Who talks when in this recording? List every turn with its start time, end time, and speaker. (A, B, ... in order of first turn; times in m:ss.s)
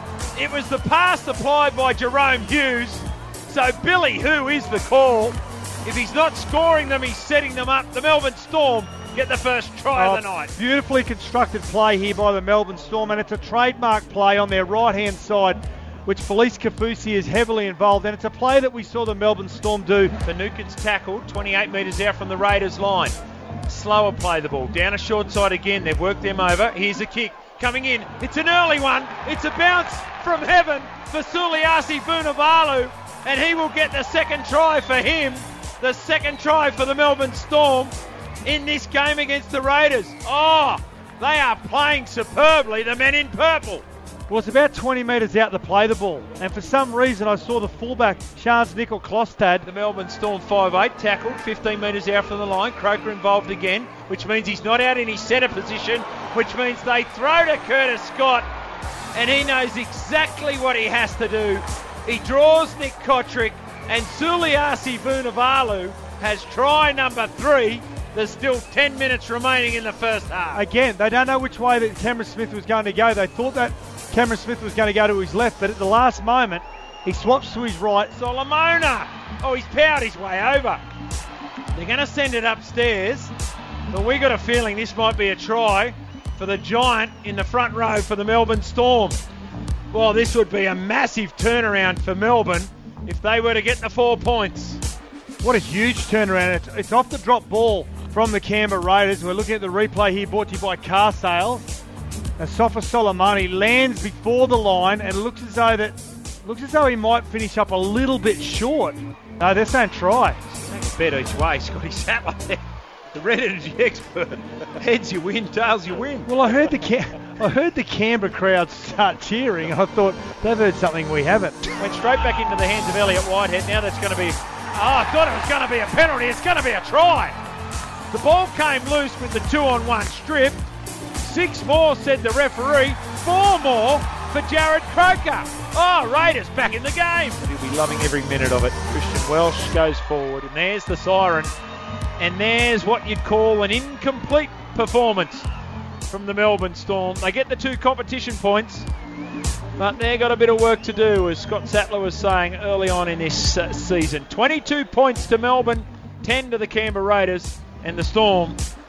0:00.4-0:10.5 A
0:09.9-0:20.2 B
0:20.2-0:23.1 A
0:23.7-0:37.9 A
0:38.4-0:43.8 A
0:44.3-0:49.6 B
0:49.6-0:58.5 A
0:59.1-1:10.6 A
1:10.5-1:18.1 B
1:18.1-1:20.8 A
1:21.7-1:23.3 A
1:23.9-1:29.2 A
1:29.9-1:34.8 A
1:35.4-1:41.7 B
1:42.4-1:50.5 B
1:50.6-1:52.6 A
1:53.1-1:56.3 A
1:56.3-2:01.7 B
2:01.8-2:07.4 A
2:08.1-2:10.6 A
2:11.2-2:21.5 A
2:22.2-2:25.5 A
2:26.1-2:28.9 A
2:29.8-2:38.6 A